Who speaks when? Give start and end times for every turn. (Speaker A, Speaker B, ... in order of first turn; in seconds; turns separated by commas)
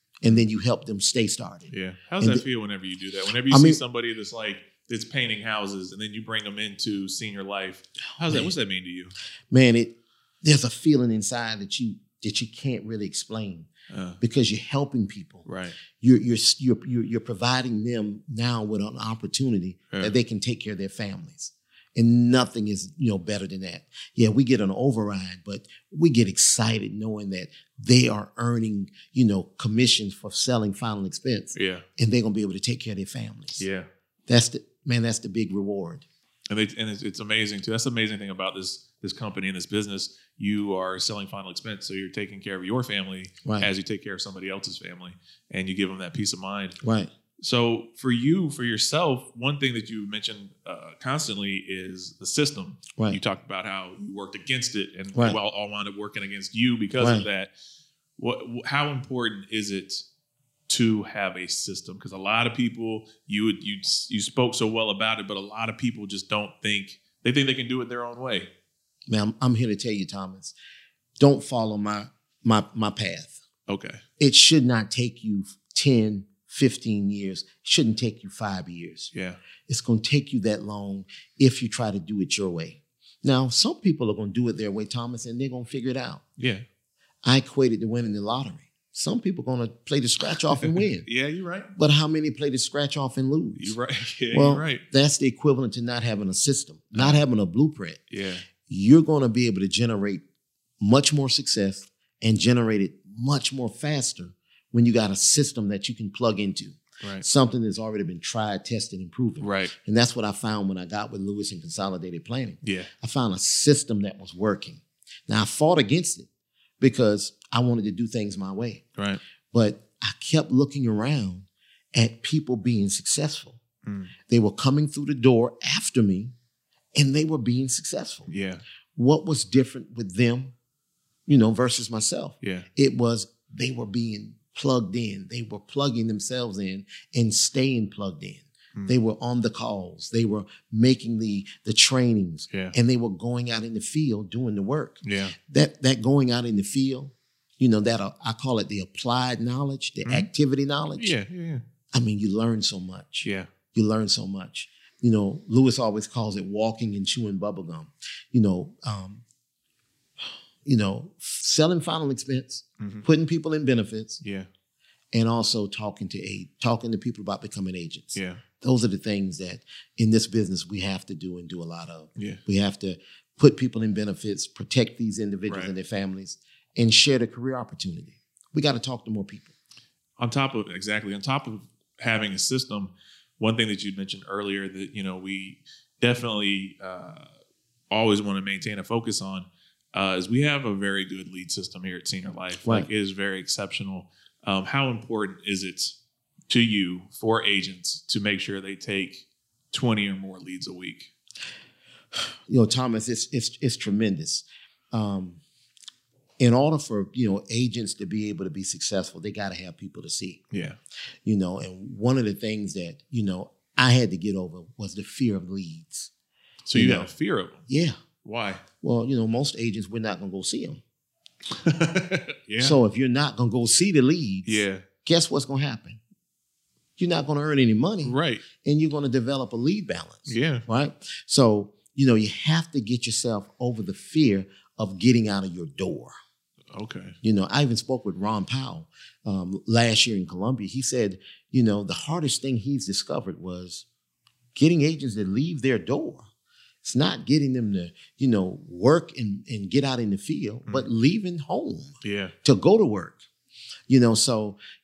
Speaker A: 0.2-2.4, Speaker B: 1.7-9.1, Speaker A: 3.5-3.8, Speaker A: 8.2-8.5, Speaker A: 9.5-13.7, Speaker B: 13.9-14.2, Speaker A: 14.2-15.4, Speaker B: 15.4-15.8, Speaker A: 16.0-33.6, Speaker B: 31.5-31.8, Speaker B: 33.6-33.9, Speaker A: 34.3-36.0, Speaker B: 36.5-46.8, Speaker A: 43.4-43.7, Speaker A: 46.8-47.1, Speaker B: 47.4-57.5, Speaker A: 57.0-57.2, Speaker B: 58.2-60.0, Speaker B: 60.7-68.5, Speaker A: 69.1-70.5, Speaker A: 71.2-73.4, Speaker B: 73.7-74.0, Speaker A: 74.2-79.1, Speaker B: 79.1-79.4, Speaker A: 79.7-86.2, Speaker B: 86.4-86.6, Speaker A: 87.2-91.1, Speaker B: 90.8-91.7, Speaker A: 91.7-93.8, Speaker B: 93.6-94.8, Speaker A: 94.3-98.0, Speaker B: 96.9-97.2, Speaker B: 98.1-98.4, Speaker A: 98.7-100.2, Speaker A: 100.8-116.3, Speaker B: 107.0-107.2, Speaker B: 109.4-109.7, Speaker B: 112.6-112.9, Speaker A: 116.8-118.8, Speaker B: 119.0-119.2, Speaker A: 119.5-123.6, Speaker B: 123.8-124.1, Speaker A: 124.3-126.3, Speaker A: 127.0-128.3, Speaker B: 128.3-128.6, Speaker A: 128.9-130.5, Speaker A: 131.3-151.1, Speaker B: 132.4-132.7, Speaker B: 142.5-142.7, Speaker B: 145.0-145.3, Speaker B: 151.0-151.6, Speaker A: 151.9-159.2, Speaker B: 153.2-153.5, Speaker A: 160.6-164.2, Speaker B: 162.8-163.1, Speaker B: 164.2-164.5, Speaker A: 165.1-179.5, Speaker B: 168.1-168.4, Speaker B: 180.2-187.3, Speaker B: 187.9-196.0, Speaker B: 196.5-201.1, Speaker A: 202.2-205.4, Speaker A: 206.4-210.4, Speaker B: 210.5-210.8, Speaker A: 211.2-216.1, Speaker B: 216.7-217.6, Speaker A: 216.7-217.1, Speaker A: 217.7-218.0, Speaker B: 218.2-218.6, Speaker A: 218.8-220.8, Speaker B: 221.5-222.8, Speaker A: 222.6-226.0, Speaker B: 224.4-224.8, Speaker A: 227.0-236.1, Speaker B: 228.0-228.4, Speaker B: 230.3-230.6, Speaker B: 236.7-237.2, Speaker A: 237.2-243.8, Speaker A: 244.5-246.2, Speaker A: 246.8-253.2, Speaker B: 252.0-252.3, Speaker A: 253.9-254.6